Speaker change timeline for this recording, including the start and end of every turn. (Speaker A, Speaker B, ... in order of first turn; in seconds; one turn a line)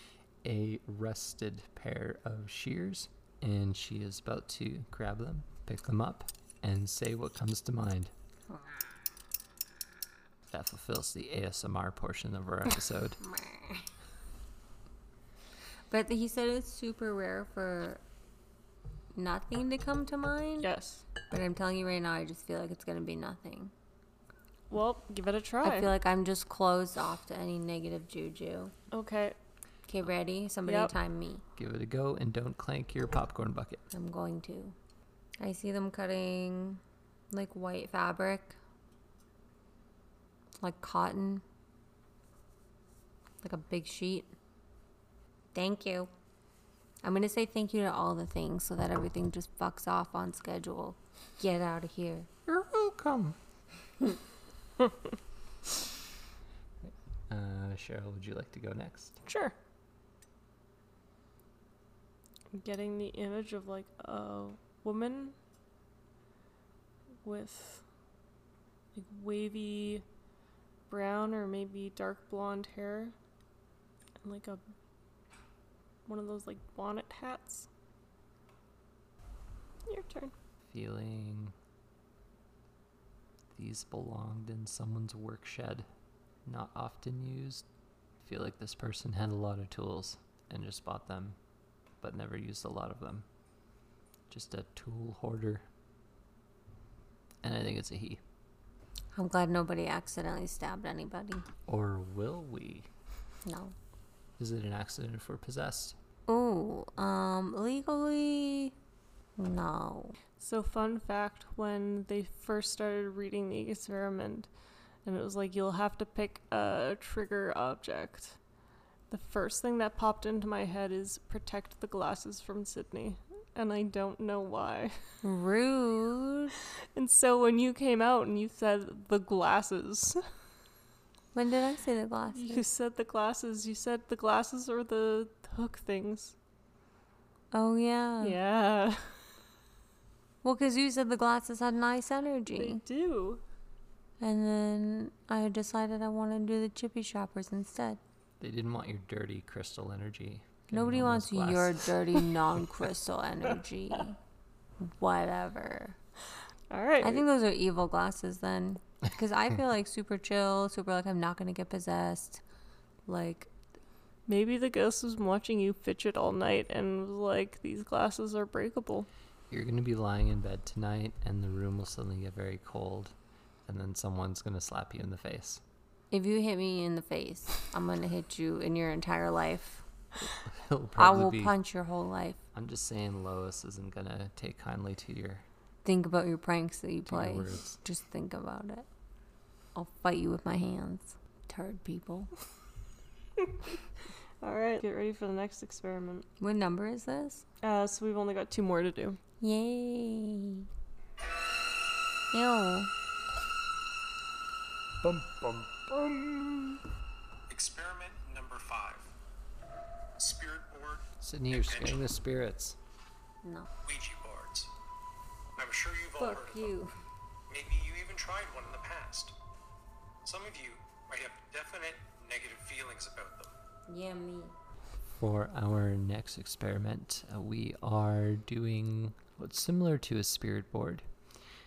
Speaker A: 0.4-8.1
Speaker B: 8.5-8.8
Speaker A: 10.5-13.2
Speaker B: 13.2-13.9
Speaker B: 15.9-18.0
Speaker B: 19.1-20.7
Speaker C: 20.6-21.1
Speaker B: 21.3-23.7
Speaker C: 24.7-25.9
Speaker B: 25.6-28.7
Speaker C: 28.9-29.4
Speaker B: 29.9-31.4
Speaker C: 30.7-30.9
Speaker A: 31.6-33.8
Speaker B: 33.9-34.8
Speaker B: 35.4-38.6
Speaker B: 40.6-41.4
Speaker B: 43.4-44.3
Speaker B: 45.5-46.1
Speaker B: 47.0-52.3
Speaker A: 52.5-53.4
Speaker A: 56.8-59.2
Speaker C: 59.3-59.5
Speaker C: 62.5-65.4
Speaker C: 67.2-67.8
Speaker C: 68.9-70.0
Speaker C: 70.9-73.1
Speaker C: 74.2-74.6
Speaker C: 76.1-77.7
Speaker C: 79.9-80.3
Speaker A: 80.7-81.5
Speaker A: 83.5-85.9
Speaker A: 86.5-87.7
Speaker A: 88.2-91.4
Speaker A: 92.0-93.3
Speaker A: 94.3-95.7
Speaker A: 97.4-98.2
Speaker B: 99.1-101.5
Speaker A: 101.7-102.9
Speaker B: 103.5-103.8
Speaker A: 104.4-106.0
Speaker B: 106.3-108.8
Speaker B: 109.4-110.2
Speaker C: 110.4-114.5
Speaker C: 115.0-118.4
Speaker C: 119.1-125.0
Speaker B: 125.2-126.6
Speaker C: 126.9-130.2
Speaker B: 131.3-132.7
Speaker C: 132.4-136.3
Speaker B: 137.5-138.4
Speaker C: 138.2-139.3
Speaker B: 140.4-142.8
Speaker C: 142.6-143.4
Speaker B: 144.2-148.0
Speaker A: 148.4-151.8
Speaker B: 150.7-154.2
Speaker B: 154.8-156.0
Speaker C: 156.7-157.2
Speaker B: 157.0-162.4
Speaker B: 163.1-163.5
Speaker C: 164.3-169.1
Speaker A: 169.5-173.1
Speaker A: 173.7-175.6
Speaker B: 176.1-179.8
Speaker A: 180.2-181.6
Speaker B: 181.0-182.4
Speaker A: 182.5-185.4
Speaker B: 185.8-188.9
Speaker A: 187.1-187.8
Speaker B: 189.8-192.3
Speaker C: 194.4-196.3
Speaker B: 196.4-197.4
Speaker C: 197.6-199.2
Speaker B: 199.4-200.7
Speaker B: 202.3-202.9
Speaker A: 205.0-206.8
Speaker D: 207.5-209.1
Speaker D: 210.2-212.0
Speaker A: 211.2-212.8
Speaker B: 213.4-213.7
Speaker D: 213.8-214.7
Speaker D: 215.6-216.7
Speaker B: 216.2-216.9
Speaker D: 217.5-219.3
Speaker D: 220.2-223.5
Speaker B: 223.9-224.5
Speaker A: 225.2-231.1